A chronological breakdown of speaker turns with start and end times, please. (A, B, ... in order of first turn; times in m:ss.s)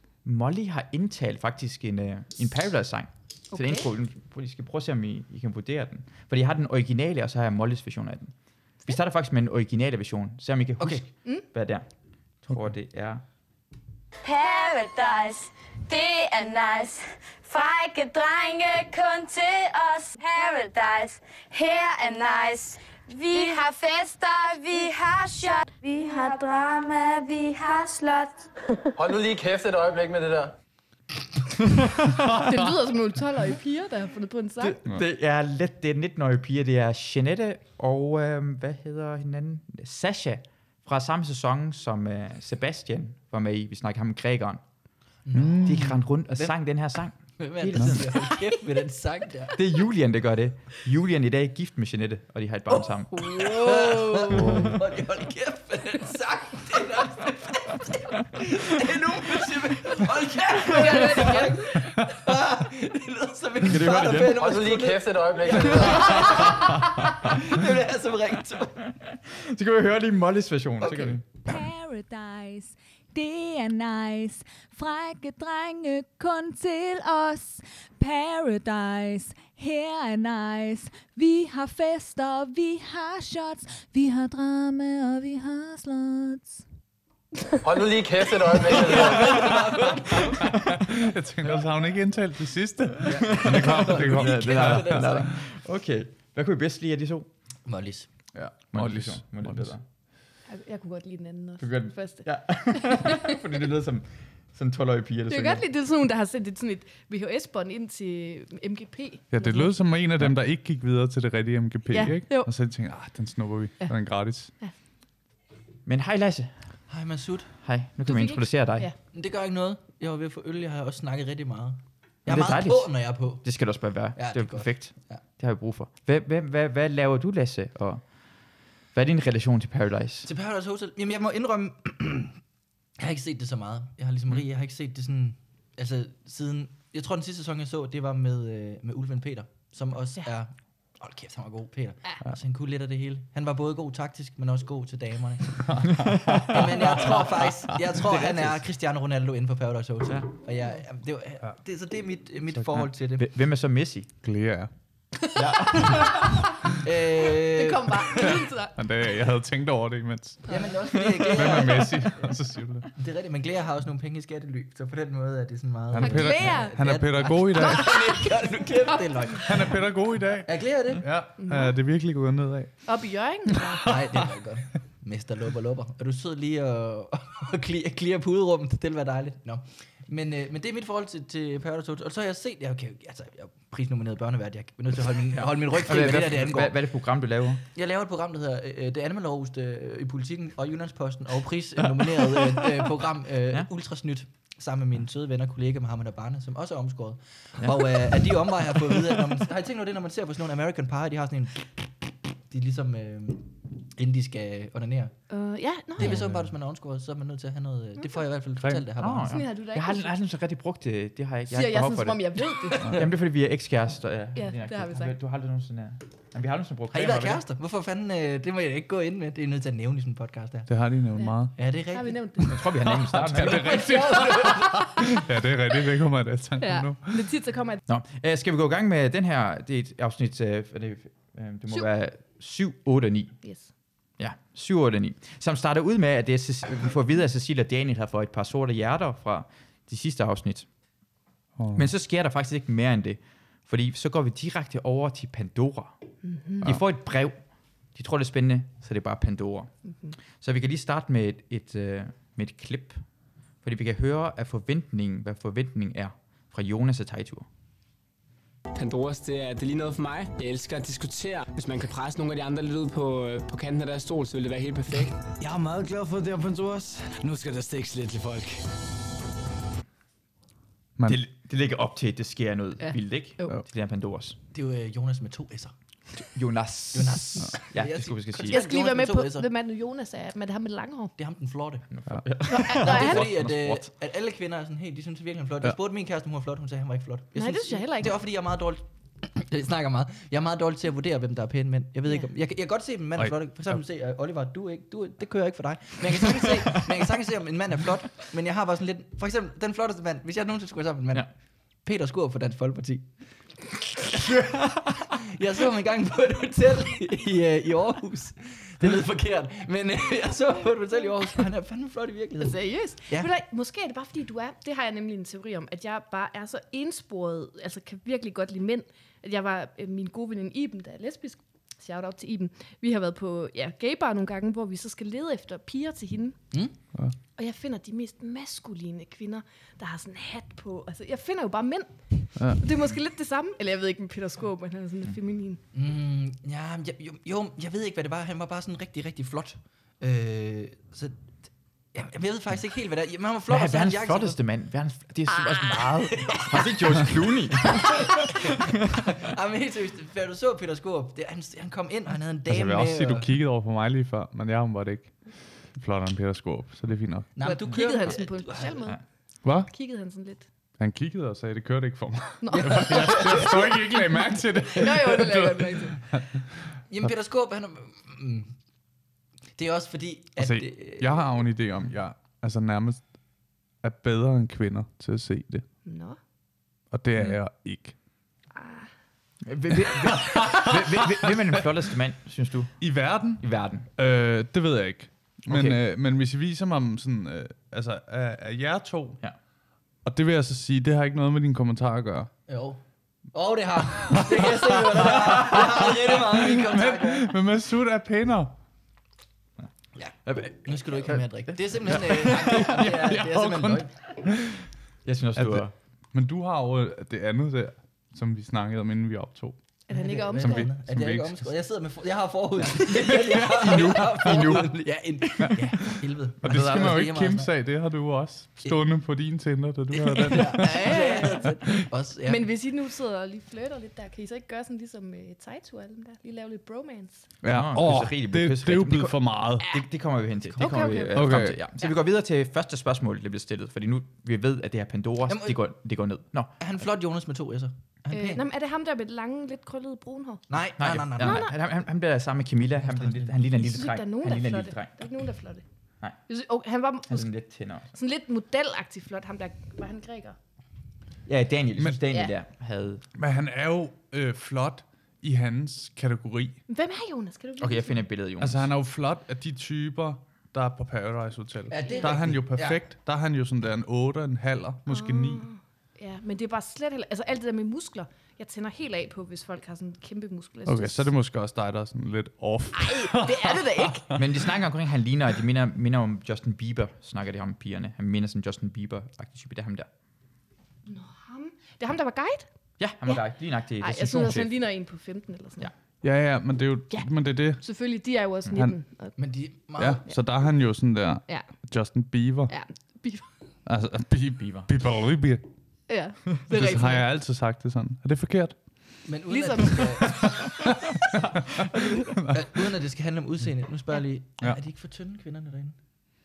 0:00.2-0:08.3 A
0:03.5-0:03.8 B
0:08.8-0:11.8 A
0:10.8-0:11.0 C
0:12.4-0:13.2 A
0:14.2-0:28.4 D
0:29.0-0:30.5 E
0:32.3-0:34.8 B
0:34.6-0:44.6 A
0:45.2-0:46.5 C
0:45.3-0:46.0 F
0:45.6-0:48.0 A
0:47.4-0:49.5 C
0:49.5-0:53.1 A
0:53.0-1:08.9 C
0:53.1-0:54.4 B
0:54.4-0:54.8 F
1:00.6-1:01.8 B
1:03.6-1:04.6 A
1:04.3-1:06.2 E
1:09.1-1:11.2 A
1:10.8-1:11.2 C
1:11.4-1:26.6 G
1:27.6-1:29.4 E
1:28.7-1:30.4 C
1:29.3-1:35.4 F
1:33.0-1:35.3 C
1:33.3-1:37.3 A
1:37.6-1:38.1 C
1:38.3-1:39.7 F
1:38.7-1:39.8 A
1:40.5-1:43.3 B
1:41.6-1:45.6 A
1:45.3-1:49.8 B
1:49.3-1:54.5 F
1:51.9-1:52.5 B
1:55.8-1:56.6 A
1:56.9-1:57.5 C
1:57.6-1:58.9 A
1:58.0-1:58.9 B
1:59.1-2:03.4 C
2:02.3-2:08.0 A
2:04.2-2:05.2 C
2:08.9-2:10.3 A
2:10.2-2:12.4 C
2:13.0-2:25.7 C
2:25.7-2:28.4 F
2:26.0-2:26.5 A
2:26.5-2:33.2 C
2:33.2-2:34.1 A
2:34.2-2:34.7 F
2:35.4-2:35.7 A
2:36.8-2:38.0 C
2:37.4-2:38.7 B
2:38.2-2:40.4 F
2:40.5-2:41.9 C
2:41.3-2:42.9 F
2:42.9-2:49.5 C
2:45.9-2:47.9 F
2:46.0-2:49.4 B
2:49.4-2:52.8 F
2:50.4-2:51.0 C
2:51.4-2:51.7 B
2:52.8-2:53.8 B
2:53.8-3:06.8 C
3:05.7-3:07.6 A
3:07.7-3:25.1 C
3:17.6-3:18.1 A
3:25.3-3:26.2 B
3:26.0-3:29.3 C
3:26.0-3:26.5 F
3:28.6-3:28.8 F
3:29.0-3:32.2 A
3:29.3-3:30.1 B
3:31.5-3:32.8 B
3:32.7-3:33.0 C
3:32.8-3:37.4 A
3:34.4-3:35.2 B
3:36.9-3:40.7 C
3:40.7-3:41.5 F
3:41.6-3:42.2 C
3:41.9-3:42.5 B
3:42.5-3:43.8 A
3:43.1-3:47.2 F
3:43.3-3:45.0 C
3:46.6-3:47.8 B
3:47.9-3:53.4 A
3:53.4-3:53.7 B
3:54.2-4:00.7 A
4:01.6-4:01.9 F
4:01.7-4:05.9 A
4:06.2-4:06.6 B
4:06.6-4:07.4 A
4:07.9-4:09.7 A
4:10.4-4:13.0 A
4:13.6-4:17.4 A
4:18.7-4:25.2 H
4:25.4-4:28.6 I
4:31.0-4:31.2 F
4:31.1-4:34.4 A
4:32.8-4:33.6 B
4:34.5-4:35.7 C
4:36.2-4:38.6 A
4:36.9-4:39.5 C
4:38.4-4:41.1 B
4:41.2-4:41.8 C
4:41.9-4:43.9 A
4:42.5-4:43.3 B
4:42.8-5:01.3 C
4:47.4-4:48.1 B
5:01.8-5:03.1 C
5:04.0-5:13.3 C
5:12.4-5:26.4 B
5:27.4-5:35.6 B
5:35.7-5:44.4 C
5:43.5-5:48.3 A
5:46.2-5:46.7 C
5:49.1-5:53.2 C
5:52.5-5:57.3 F
5:57.4-5:58.8 C
5:57.4-5:59.0 B
5:59.4-5:59.7 F
5:59.7-6:00.4 B
6:00.8-6:06.4 F
6:02.4-6:03.5 B
6:02.5-6:03.6 C
6:04.5-6:06.0 B
6:06.9-6:08.5 C
6:09.6-6:11.2 C
6:10.4-6:13.1 F
6:13.8-6:15.6 F
6:15.8-6:16.2 B
6:16.9-6:18.0 F
6:18.5-6:18.9 B
6:19.4-6:23.9 A
6:20.5-6:21.2 F
6:22.8-6:29.2 F
6:25.5-6:25.8 A
6:30.0-6:32.3 F
6:32.5-6:32.8 C
6:33.3-6:37.3 C
6:35.0-6:38.5 F
6:40.0-6:43.9 C
6:40.2-6:42.2 A
6:42.1-6:44.3 F
6:45.0-6:45.7 A
6:45.4-6:49.6 F
6:49.9-6:50.7 B
6:49.9-6:57.5 C
6:50.4-6:51.6 F
6:53.5-6:54.7 A
6:56.4-7:01.0 F
6:59.9-7:02.5 C
7:00.6-7:01.5 B
7:02.2-7:07.3 B
7:07.4-7:09.7 F
7:07.5-7:16.5 A
7:10.4-7:10.8 C
7:10.6-7:11.2 B
7:11.1-7:11.6 F
7:15.3-7:15.6 C
7:16.6-7:18.4 C
7:18.1-7:20.5 B
7:20.5-7:21.5 C
7:20.8-7:24.9 A
7:21.2-7:21.5 B
7:22.8-7:23.5 C
7:23.6-7:25.6 B
7:26.3-7:27.3 B
7:27.1-7:27.9 A
7:27.9-7:30.4 B
7:31.3-7:33.0 A
7:31.8-7:32.0 F
7:33.2-7:36.6 F
7:36.7-7:38.0 B
7:37.6-7:38.7 A
7:38.4-7:45.4 F
7:41.7-7:42.8 C
7:41.8-7:42.1 B
7:44.9-7:51.1 B
7:50.6-7:54.2 F
7:52.7-7:54.1 B
7:54.1-7:59.9 A
8:00.8-8:02.5 B
8:02.8-8:04.5 A
8:03.0-8:05.7 B
8:06.0-8:07.6 F
8:06.9-8:09.1 B
8:09.2-8:10.0 C
8:09.8-8:12.5 F
8:11.3-8:11.6 B
8:12.5-8:13.3 B
8:13.6-8:15.4 F
8:14.4-8:14.7 A
8:15.9-8:17.1 B
8:16.5-8:19.1 F
8:19.0-8:20.4 C
8:19.3-8:20.6 B
8:22.3-8:25.8 C